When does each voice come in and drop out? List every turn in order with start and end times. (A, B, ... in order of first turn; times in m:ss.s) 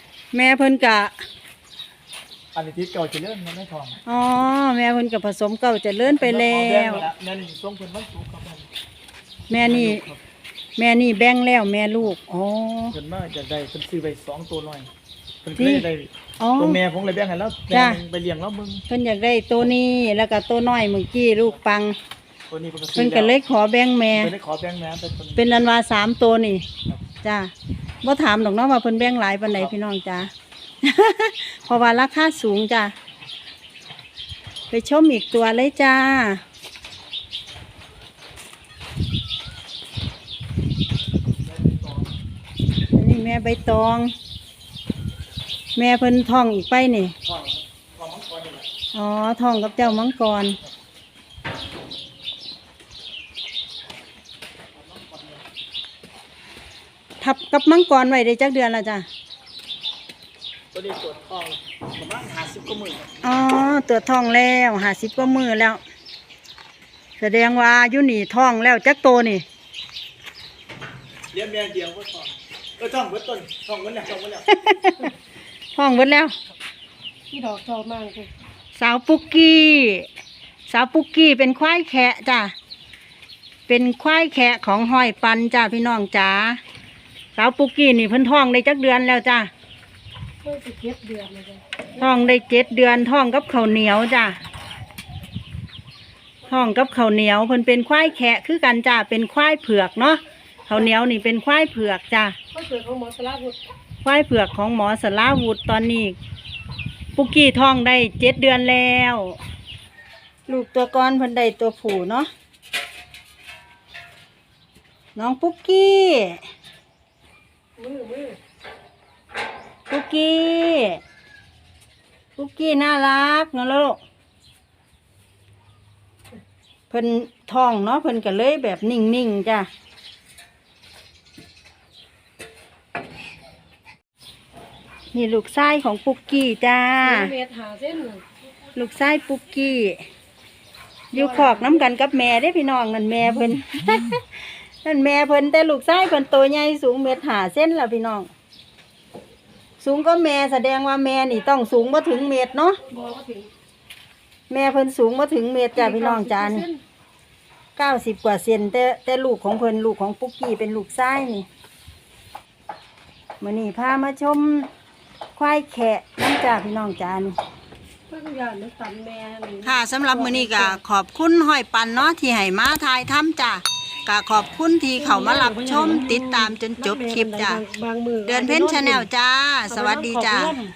0:00.3-0:01.2 A
0:02.5-0:04.0 B
0:04.0-0:07.1 A
0:06.0-0:08.7 B
0:09.5-0:10.0 A
0:09.6-0:10.2 B
0:10.8-0:12.9 A
0:12.9-0:14.9 B
0:15.4-0:18.8 B
0:15.6-0:15.8 A
0:16.4-0:16.8 A
0:17.7-0:18.0 A
0:18.9-0:22.0 A
0:22.5-0:23.3 B
0:22.9-0:24.3 A
0:24.1-0:25.5 B
0:25.4-0:26.6 A
0:27.2-0:27.5 A
0:28.0-0:30.3 A
0:30.8-0:32.9 A
0:34.7-0:36.4 A
0:41.4-0:42.1 B
0:42.9-0:44.1 A
0:45.8-0:47.1 A
0:47.2-0:48.7 B
0:48.9-0:50.6 A
0:54.7-0:55.4 B
0:57.2-0:59.0 A
1:00.7-1:03.1 B
1:03.2-1:05.8 A
1:07.2-1:09.4 A
1:11.3-1:14.5 B
1:14.5-1:15.1 A
1:15.7-1:16.3 A
1:17.3-1:18.3 C
1:18.7-1:20.1 A
1:20.7-1:22.5 A
1:23.7-1:26.6 A
1:27.3-1:29.5 A
1:30.4-1:31.6 C
1:32.0-1:34.4 A
1:36.5-1:42.4 A
1:42.5-1:43.6 C
1:44.0-1:46.2 A
1:47.2-1:49.4 A
1:50.5-1:52.3 A
1:55.1-1:56.4 A
1:57.8-1:58.4 C
1:59.9-2:01.0 A
2:02.4-2:04.0 A
2:06.9-2:09.7 A
2:15.1-2:17.3 A
2:17.0-2:18.2 C
2:18.7-2:20.0 A
2:21.1-2:28.3 A
2:21.1-2:21.8 C
2:29.8-2:32.8 A
2:32.9-2:33.5 C
2:34.5-2:36.6 A
2:35.8-2:36.8 C
2:37.8-2:41.5 A
2:43.4-2:44.7 A
2:45.4-2:47.4 A
2:48.1-2:50.8 C
2:49.6-2:57.6 A
2:55.0-2:59.1 C
2:58.2-3:00.6 A
2:59.7-3:00.6 C